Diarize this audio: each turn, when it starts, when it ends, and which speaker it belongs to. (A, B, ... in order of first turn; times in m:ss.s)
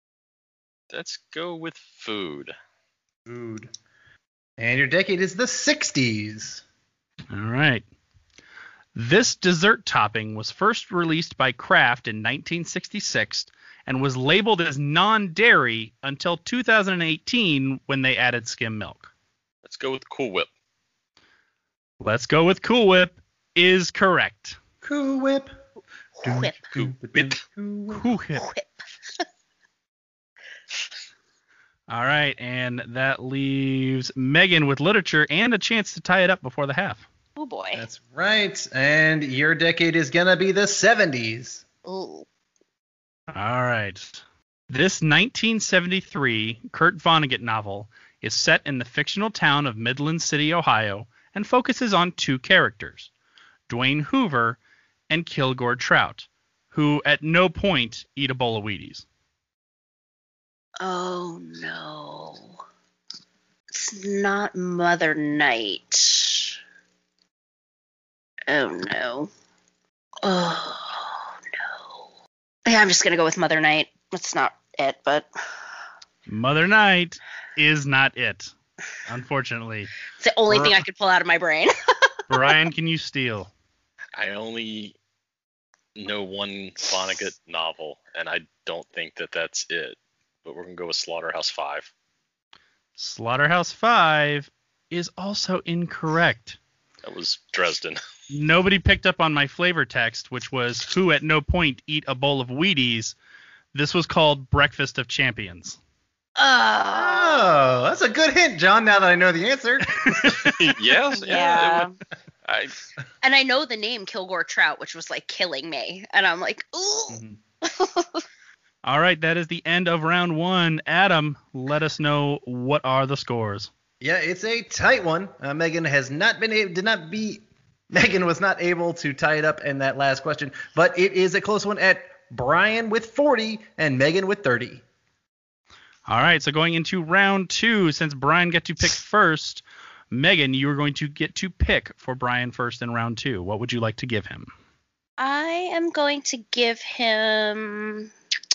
0:00.9-0:02.5 A
0:03.3-0:03.7 B
0:04.6-0:06.6 B
0:07.3-0:07.8 C
0:08.9-0:19.1 C
0:19.6-0:20.5 A
0:22.0-0:24.6 C
0:24.8-0:25.6 B
0:26.2-0:26.7 D
0:26.2-0:28.1 B
0:26.8-0:27.3 A
0:27.9-0:28.4 C
0:28.4-0:29.2 D
0:31.9-0:37.1 C
0:37.4-0:37.8 D
0:37.7-0:41.6 B
0:41.8-0:42.2 D
0:43.3-0:53.1 C
0:53.7-0:54.6 C
0:55.1-0:59.0 C
1:00.8-1:02.6 D
1:03.7-1:06.6 D
1:08.5-1:09.3 D
1:10.2-1:12.0 D
1:12.6-1:15.3 D
1:16.3-1:18.5 C
1:19.0-1:19.9 C
1:20.1-1:21.7 D
1:20.5-1:20.8 C
1:22.3-1:23.5 C
1:24.2-1:24.9 A
1:26.0-1:31.9 A
1:33.0-1:36.6 C
1:37.0-1:38.0 A
1:38.3-1:43.2 C
1:43.7-1:45.8 C
1:46.4-1:47.5 D
1:46.9-1:50.5 B
1:50.1-1:50.5 C
1:50.4-1:51.9 A
1:51.1-1:51.9 D
1:52.4-1:52.7 A
1:53.2-1:58.2 D
1:57.1-1:57.4 B
1:58.8-2:03.7 C
2:04.0-2:14.8 B
2:16.1-2:24.5 C
2:25.2-2:28.1 D